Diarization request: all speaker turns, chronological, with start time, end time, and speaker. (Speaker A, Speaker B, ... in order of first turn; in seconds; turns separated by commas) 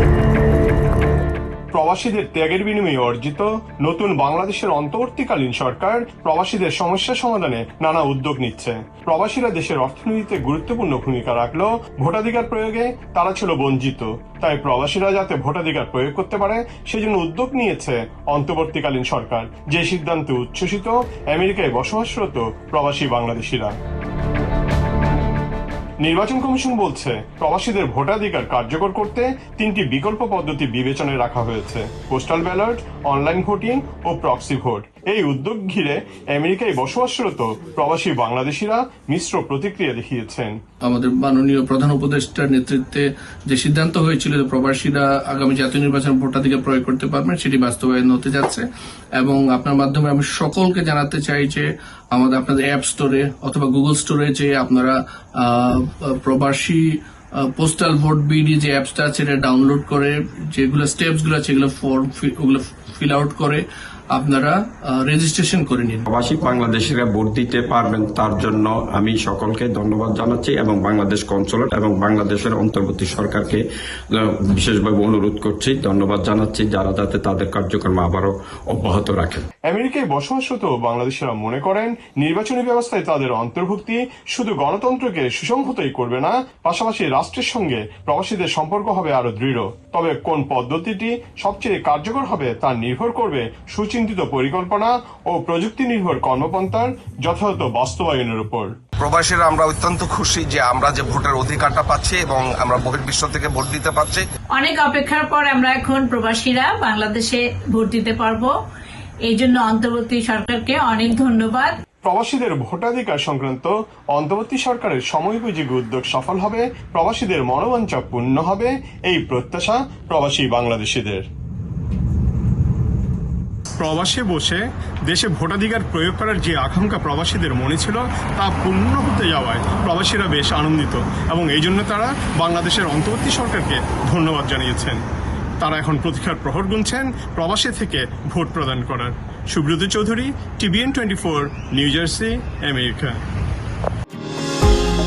Speaker A: 1.7-23.7, Speaker A: 26.0-40.5, Speaker B: 40.8-48.7, Speaker B: 49.2-63.6, Speaker B: 64.2-66.0, Speaker C: 66.1-73.6, Speaker C: 74.1-79.5, Speaker A: 79.7-98.7, Speaker D: 99.0-104.2, Speaker E: 104.5-108.5, Speaker E: 109.2-111.8, Speaker A: 112.0-121.2, Speaker A: 123.8-135.0, Speaker A: 135.6-143.2